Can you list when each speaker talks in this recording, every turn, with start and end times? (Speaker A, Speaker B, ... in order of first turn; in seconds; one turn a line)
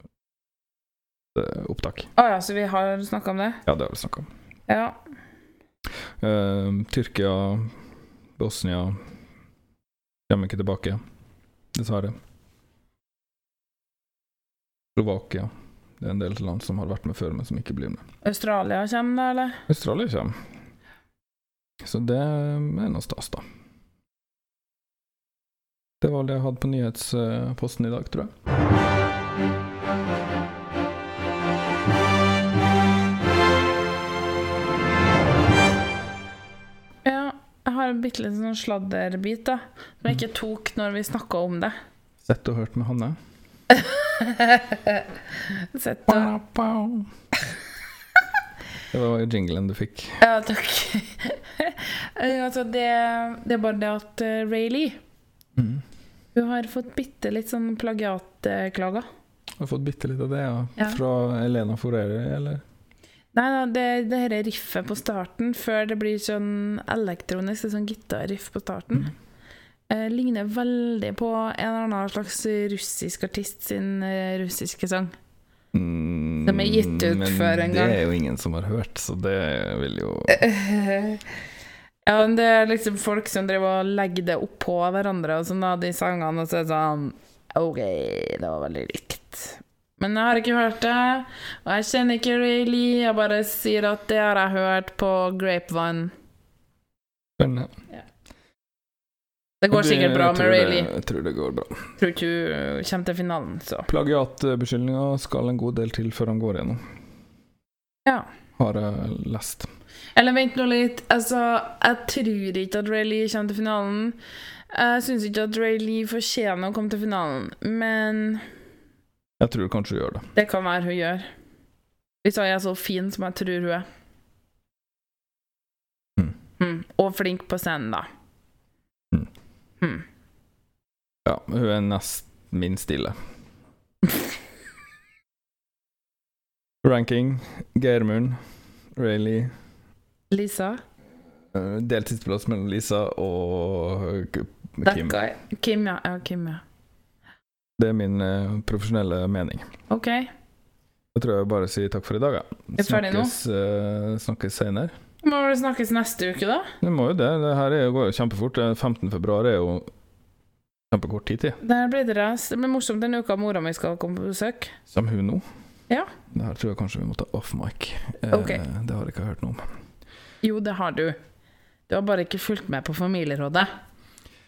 Speaker A: 1.3-2.1
Speaker B: 2.2-3.6
Speaker A: 3.6-4.3
Speaker B: 4.7-5.0
Speaker A: 6.2-7.7
Speaker A: 8.4-9.0
Speaker A: 10.3-11.0
Speaker A: 11.7-12.2
Speaker A: 14.9-18.0
Speaker B: 18.2-19.6
Speaker A: 19.7-20.4
Speaker A: 21.8-23.4
Speaker A: 26.0-28.3
Speaker B: 37.0-41.7
Speaker A: 42.2-43.2
Speaker B: 43.7-46.3
Speaker A: 46.1-47.1
Speaker A: 48.9-50.2
Speaker B: 50.2-55.0
Speaker A: 55.6-55.8
Speaker B: 56.3-59.1
Speaker A: 59.6-62.6
Speaker B: 63.3-69.1
Speaker B: 69.9-75.1
Speaker A: 75.7-80.4
Speaker B: 76.5-78.0
Speaker B: 80.3-81.2
Speaker B: 82.0-96.1
Speaker A: 97.4-97.7
Speaker B: 99.6-100.9
Speaker A: 99.7-101.9
Speaker B: 102.0-103.9
Speaker A: 103.9-106.8
Speaker A: 108.6-109.7
Speaker B: 110.1-114.2
Speaker B: 114.7-118.4
Speaker A: 119.4-120.3
Speaker B: 120.3-121.3
Speaker B: 122.2-123.8
Speaker B: 126.6-128.1
Speaker A: 131.2-133.2
Speaker A: 136.8-138.4
Speaker A: 138.9-139.5
Speaker B: 140.3-140.8
Speaker A: 141.5-145.2
Speaker B: 144.8-146.6
Speaker A: 147.8-149.7
Speaker B: 149.9-150.3
Speaker A: 151.1-154.9
Speaker B: 152.8-153.3
Speaker B: 155.2-156.7
Speaker A: 156.8-159.9
Speaker A: 160.9-161.6
Speaker B: 161.6-164.7
Speaker A: 164.9-165.4
Speaker A: 166.3-169.7
Speaker B: 168.3-168.6
Speaker B: 170.4-171.2
Speaker B: 171.9-173.7